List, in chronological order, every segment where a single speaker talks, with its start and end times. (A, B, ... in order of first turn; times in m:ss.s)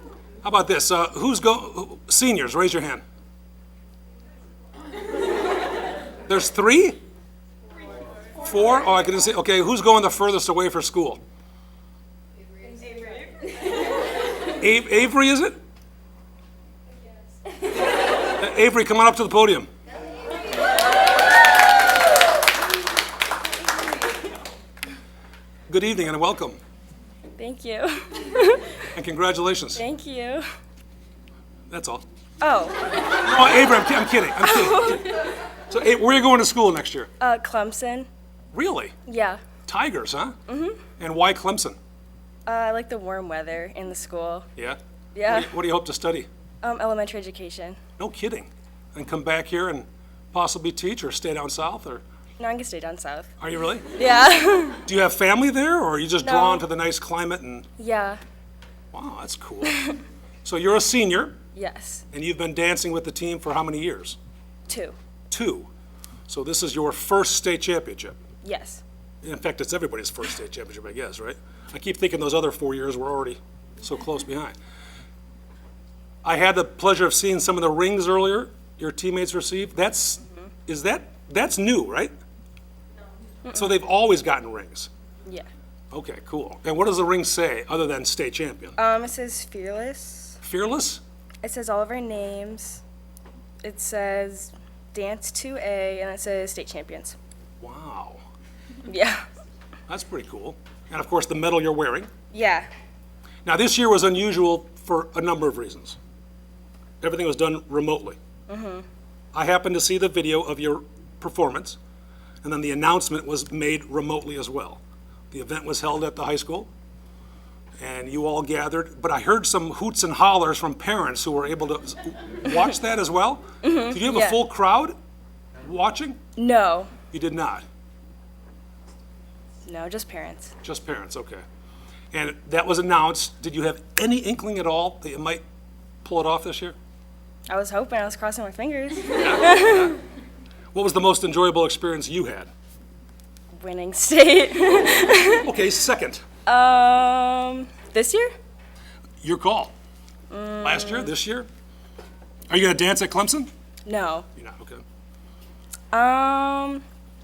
0:00.4-0:03.0 A
0:06.3-0:07.0 A
0:08.4-0:11.2 A
0:12.8-0:13.1 B
0:14.6-0:15.6 A
0:18.3-0:19.7 A
0:25.7-0:26.6 A
0:27.4-0:28.8 B
0:28.9-0:29.8 A
0:29.7-0:30.4 B
0:31.7-0:32.0 A
0:32.4-0:33.5 B
0:33.2-0:37.1 A
0:34.4-0:35.1 B
0:37.2-0:38.1 B
0:38.5-0:38.9 A
0:39.0-0:39.4 B
0:39.6-0:40.4 A
0:40.5-0:40.8 B
0:41.0-0:41.8 A
0:42.4-0:44.4 B
0:44.6-0:46.3 A
0:45.1-0:45.5 B
0:46.6-0:47.8 B
0:48.0-0:52.0 A
0:52.4-0:53.3 B
0:53.4-0:53.9 A
0:53.9-0:54.8 B
0:54.8-0:57.7 A
0:56.2-0:56.6 B
0:57.8-0:58.2 B
0:58.9-0:59.8 A
1:00.4-1:01.4 A
1:01.5-1:02.0 B
1:02.1-1:04.2 A
1:04.7-1:05.0 B
1:05.3-1:05.7 A
1:06.3-1:08.2 A
1:08.4-1:08.8 B
1:09.2-1:14.5 A
1:16.2-1:22.1 A
1:23.5-1:24.9 A
1:25.9-1:28.8 A
1:28.8-1:30.4 B
1:30.4-1:31.0 A
1:31.4-1:32.8 B
1:33.6-1:37.2 B
1:37.6-1:38.2 A
1:38.9-1:39.2 B
1:39.9-1:42.1 A
1:42.3-1:42.7 B
1:43.4-1:46.0 A
1:47.0-1:48.2 A
1:48.5-1:48.8 B
1:49.3-1:51.8 A
1:52.4-1:56.7 A
1:57.8-2:04.9 A
2:03.6-2:04.4 B
2:05.6-2:06.2 A
2:06.4-2:06.9 B
2:07.1-2:07.6 A
2:09.6-2:10.5 B
2:10.6-2:11.4 A
2:12.1-2:15.4 A
2:16.0-2:16.8 A
2:17.5-2:19.9 B
2:19.1-2:20.0 A
2:20.7-2:22.5 A
2:23.6-2:25.5 B
2:25.4-2:26.2 A
2:26.4-2:28.3 B
2:29.2-2:29.7 A
2:30.3-2:31.1 B
2:30.6-2:31.5 A
2:32.5-2:33.5 A
2:33.8-2:34.2 B
2:34.3-2:34.8 A
2:35.9-2:36.8 B